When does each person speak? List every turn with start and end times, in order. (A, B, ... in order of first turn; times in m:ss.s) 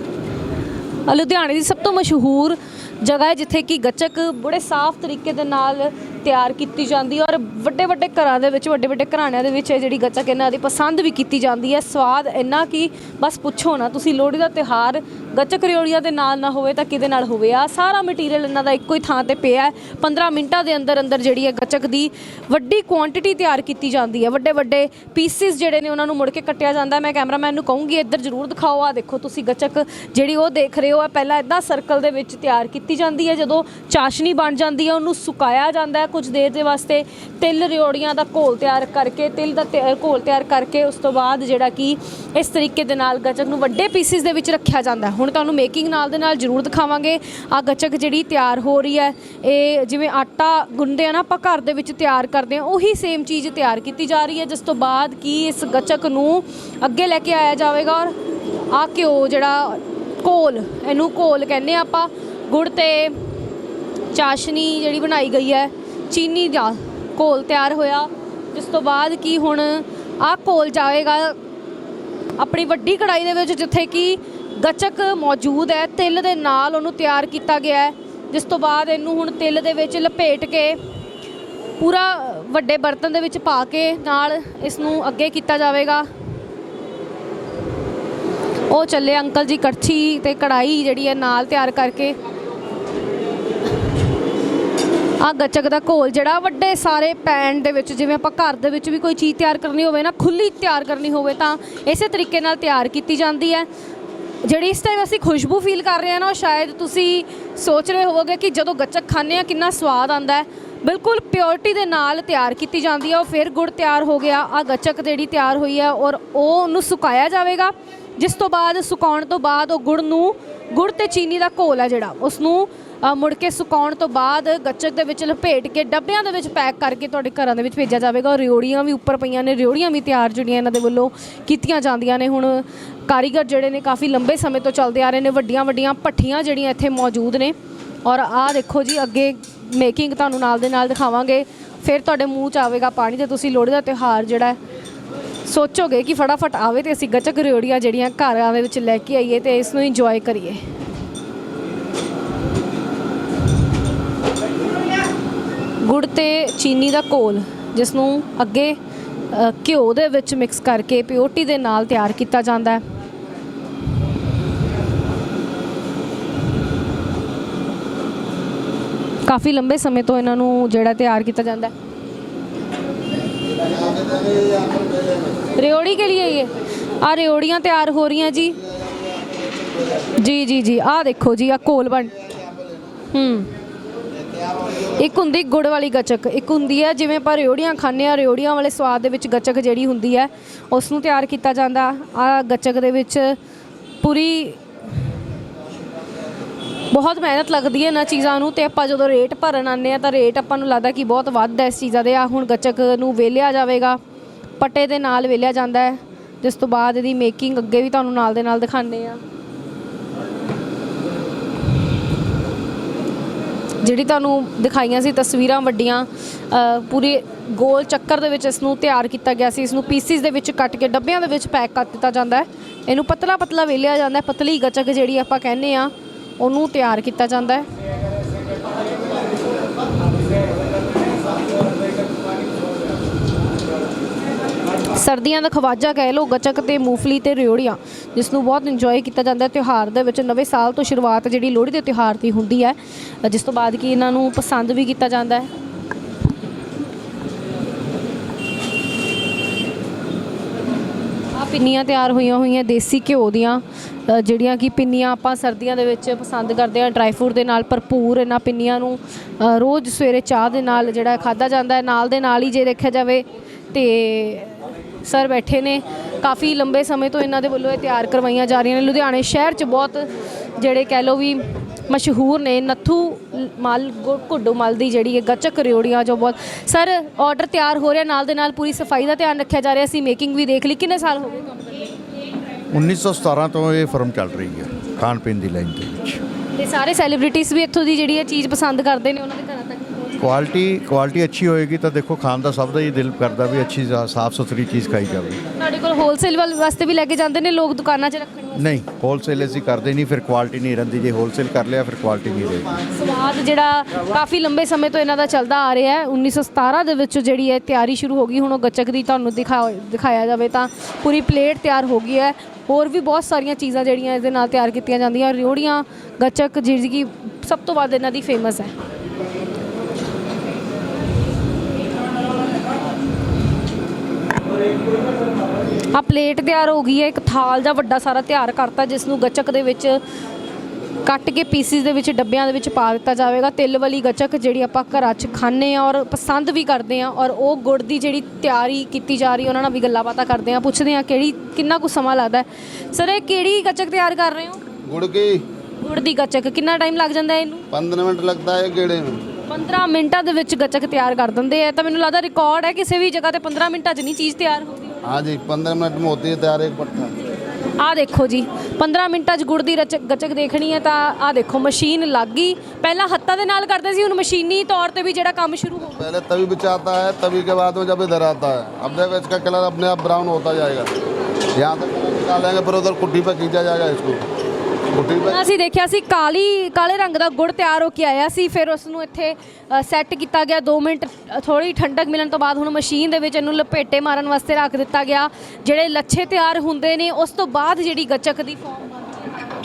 0:01.0-0:58.2 A
0:58.7-1:03.2 A
1:04.1-1:11.4 A
1:12.4-1:20.8 A
1:21.8-1:26.1 A
1:28.7-1:32.2 A
1:35.2-1:43.7 A
1:44.4-2:24.6 A
2:25.4-2:30.6 A
2:35.8-2:38.8 A
2:39.3-2:42.8 A
2:49.2-2:51.7 A
2:55.5-2:58.6 A
3:00.1-3:02.2 A
3:03.1-3:03.5 A
3:04.9-3:13.4 A
3:14.0-3:14.6 A
3:16.9-3:24.0 A
3:24.6-3:29.2 A
3:33.8-3:47.7 A
3:54.9-4:05.5 A
4:11.3-4:41.9 A
4:42.7-4:46.2 B
4:46.5-4:50.1 A
4:50.2-4:55.4 B
4:55.6-4:58.7 A
4:58.5-5:02.7 B
5:02.9-5:18.7 A
5:25.9-5:30.0 A
5:31.0-5:44.6 A
5:44.8-5:45.4 C
5:45.8-5:47.6 A
5:47.7-5:49.2 C
5:49.5-5:55.0 A
5:55.0-5:57.1 C
5:57.8-6:06.0 A
6:06.0-6:10.9 C
6:11.5-6:14.2 C
6:14.9-6:15.4 C
6:15.2-6:29.3 A